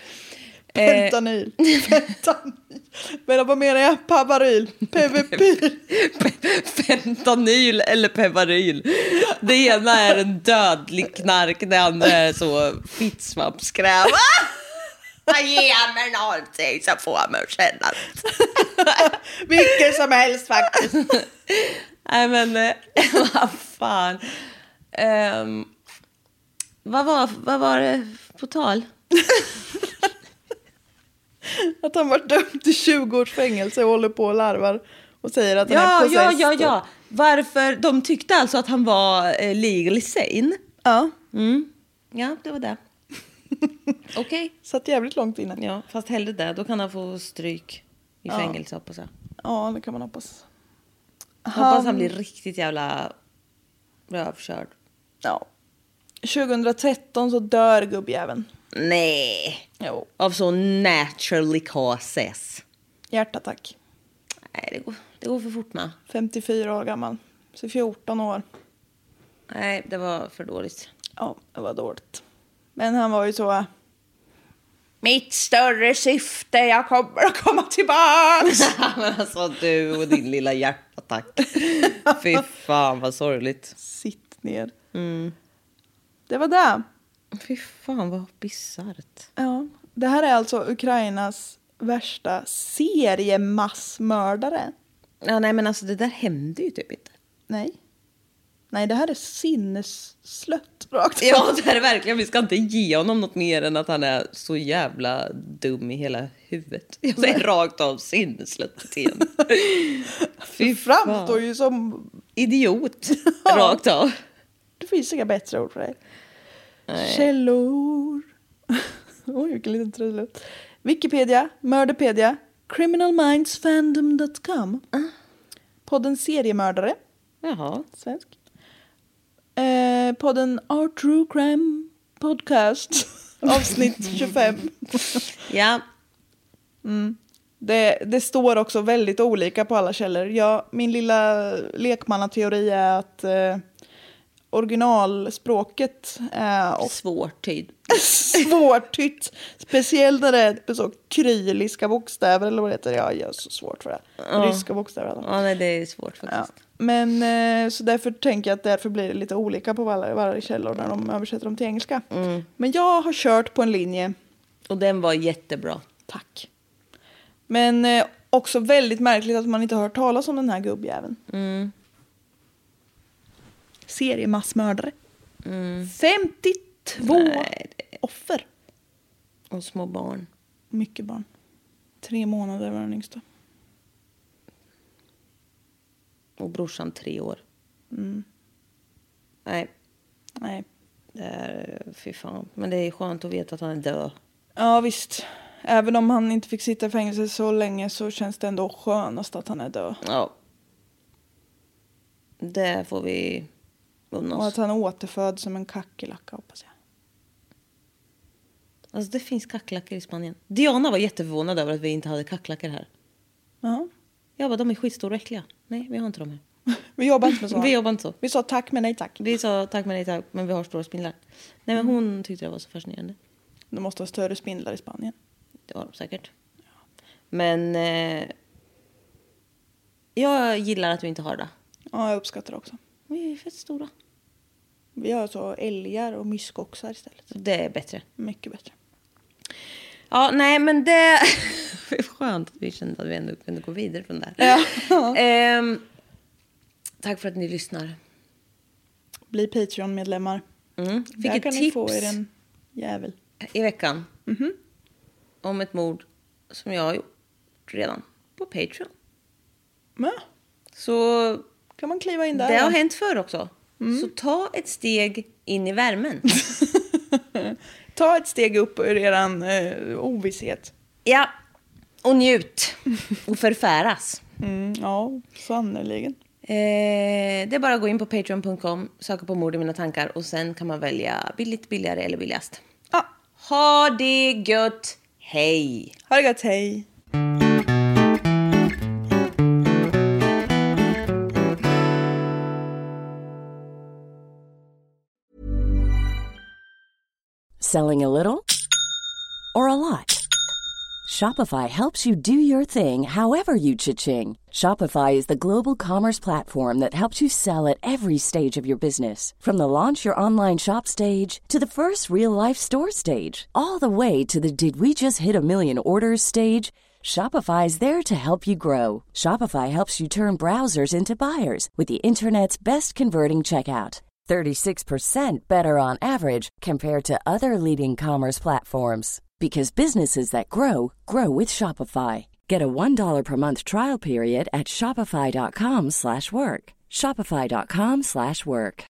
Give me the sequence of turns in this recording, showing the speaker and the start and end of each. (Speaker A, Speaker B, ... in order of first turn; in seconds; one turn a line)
Speaker A: 0.7-1.1
Speaker B: 0.8-5.8
Speaker A: 5.0-14.6
Speaker A: 15.3-19.9
Speaker B: 19.0-21.1
Speaker A: 20.7-24.3
Speaker A: 24.9-25.7
Speaker A: 26.8-28.9
Speaker B: 31.5-36.7
Speaker A: 35.6-40.6
Speaker B: 40.8-41.1
Speaker A: 41.3-42.8
Speaker A: 44.1-44.5
Speaker B: 44.6-45.6
Speaker A: 45.5-49.1
Speaker B: 48.3-48.6
Speaker B: 49.4-50.4
Speaker B: 51.5-52.1
Speaker A: 51.5-53.1
Speaker A: 54.1-54.7
Speaker B: 56.2-58.5
Speaker A: 58.7-59.6
Speaker B: 59.8-60.1
Speaker A: 60.2-62.6
Speaker B: 63.1-63.8
Speaker A: 64.5-66.0
Speaker B: 66.1-68.4
Speaker A: 69.5-70.9
Speaker B: 71.2-72.2
Speaker B: 72.8-73.7
Speaker B: 75.0-78.7
Speaker A: 78.4-83.8
Speaker B: 83.8-84.7
Speaker A: 84.9-85.3
Speaker B: 86.3-86.8
Speaker A: 87.3-89.3
Speaker B: 89.4-94.7
Speaker A: 95.2-97.1
Speaker B: 97.5-97.8
Speaker B: 98.7-101.5
Speaker A: 101.2-111.4
Speaker B: 107.2-107.4
Speaker B: 110.5-112.2
Speaker A: 112.3-114.1
Speaker B: 113.2-113.8
Speaker B: 114.8-116.0
Speaker A: 116.9-117.3
Speaker B: 117.0-124.8
Speaker B: 125.8-127.0
Speaker A: 127.4-127.8
Speaker B: 127.9-128.3
Speaker B: 129.6-135.2
Speaker A: 135.4-135.8
Speaker B: 136.8-143.6
Speaker B: 144.5-146.9
Speaker A: 146.8-148.5
Speaker B: 147.9-155.3
Speaker A: 154.2-154.7
Speaker A: 155.2-156.5
Speaker B: 156.3-164.1
Speaker A: 162.1-162.4
Speaker A: 164.7-165.8
Speaker B: 166.1-166.5
Speaker B: 167.5-171.2
Speaker A: 171.3-171.7
Speaker B: 173.9-174.9
Speaker A: 175.4-175.9
Speaker B: 175.9-177.5
Speaker A: 177.0-177.8
Speaker B: 178.0-178.4
Speaker A: 179.5-180.3
Speaker B: 180.7-181.2
Speaker B: 182.0-183.2
Speaker A: 186.4-187.4
Speaker B: 187.9-188.2
Speaker A: 189.4-189.7
Speaker A: 191.1-194.2
Speaker B: 194.6-200.0
Speaker A: 200.0-200.3
Speaker A: 202.4-203.5
Speaker A: 204.1-204.5
Speaker B: 204.3-206.7
Speaker A: 208.9-212.9
Speaker B: 213.6-213.9
Speaker A: 214.4-216.4
Speaker B: 216.9-219.2
Speaker A: 217.5-218.2
Speaker A: 219.2-223.2
Speaker B: 223.7-225.1
Speaker A: 225.7-226.3
Speaker A: 227.3-228.3
Speaker A: 230.2-231.5
Speaker B: 231.9-232.8
Speaker A: 233.1-233.9
Speaker B: 234.9-237.3
Speaker A: 237.3-238.0
Speaker B: 238.2-238.7
Speaker A: 240.1-245.8
Speaker B: 244.4-245.2
Speaker A: 247.0-247.9
Speaker B: 249.3-250.4
Speaker A: 250.8-252.2
Speaker B: 251.2-253.1
Speaker A: 253.4-254.1
Speaker B: 254.3-254.6
Speaker A: 255.4-257.1
Speaker A: 257.7-258.9
Speaker A: 260.8-261.4
Speaker B: 261.8-262.8
Speaker A: 262.3-266.3
Speaker B: 263.8-264.1
Speaker B: 266.6-270.7
Speaker A: 271.1-271.3
Speaker A: 272.0-274.2
Speaker B: 274.4-276.2
Speaker A: 276.4-282.6
Speaker A: 283.4-285.9
Speaker B: 286.1-286.9
Speaker C: 297.6-298.4
Speaker C: 299.5-300.2
Speaker C: 301.1-338.9